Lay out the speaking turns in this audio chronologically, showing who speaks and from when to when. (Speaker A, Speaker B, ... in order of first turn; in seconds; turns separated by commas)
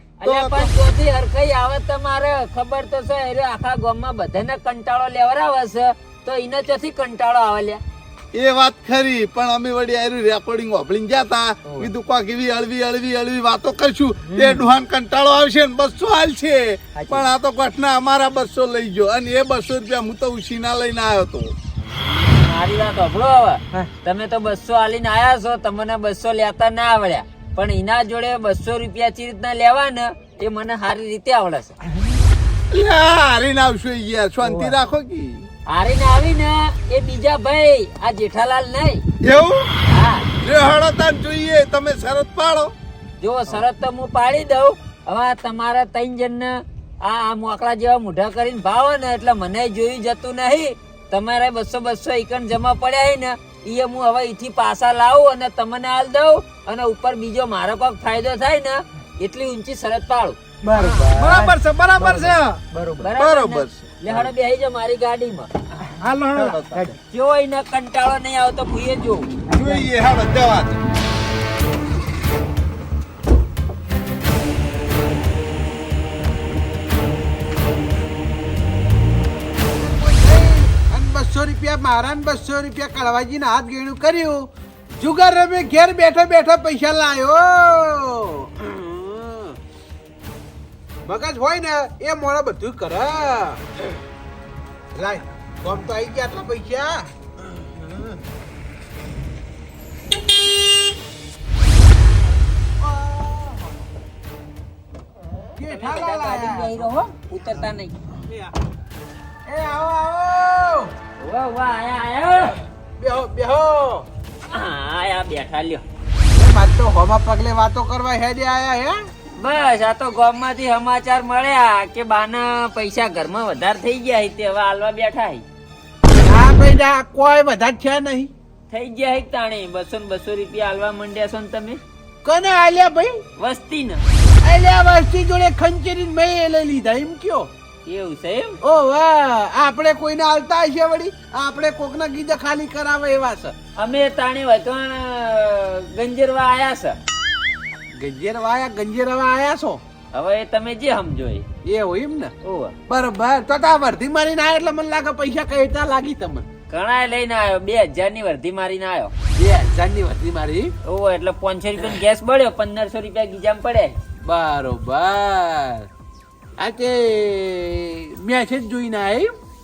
Speaker A: 0.2-7.8, Speaker B: 0.2-0.7, Speaker B: 8.3-21.5, Speaker C: 14.3-14.7, Speaker C: 16.9-17.3, Speaker A: 21.9-31.7, Speaker B: 32.7-35.5, Speaker C: 34.4-34.7, Speaker A: 35.7-39.0, Speaker B: 39.2-39.7, Speaker A: 39.9-40.3, Speaker B: 40.4-42.7, Speaker A: 43.2-60.4, Speaker C: 60.6-63.1, Speaker D: 60.7-62.6, Speaker A: 63.0-65.5, Speaker B: 63.2-64.3, Speaker D: 66.0-66.6, Speaker B: 66.3-67.0, Speaker A: 67.1-69.3, Speaker C: 69.5-69.8, Speaker B: 69.5-70.8, Speaker E: 79.7-89.6, Speaker E: 91.0-93.6, Speaker E: 94.9-98.2, Speaker E: 102.8-103.8, Speaker E: 105.5-106.8, Speaker A: 105.7-107.9, Speaker E: 108.1-108.5, Speaker E: 109.5-110.9, Speaker A: 111.2-112.5, Speaker E: 112.5-114.1, Speaker A: 114.5-115.8, Speaker E: 116.3-119.0, Speaker A: 119.3-125.4, Speaker E: 126.2-128.3, Speaker A: 128.7-131.8, Speaker E: 132.2-133.2, Speaker A: 133.4-134.0, Speaker E: 134.4-137.5, Speaker A: 137.8-138.6, Speaker E: 138.6-143.5, Speaker A: 143.8-147.0, Speaker E: 147.9-149.8, Speaker A: 150.1-151.4, Speaker E: 151.6-152.3, Speaker A: 152.4-152.7, Speaker E: 152.9-156.5, Speaker A: 156.7-159.1, Speaker E: 159.4-160.7, Speaker A: 160.8-164.0, Speaker E: 164.2-165.9, Speaker E: 166.6-169.3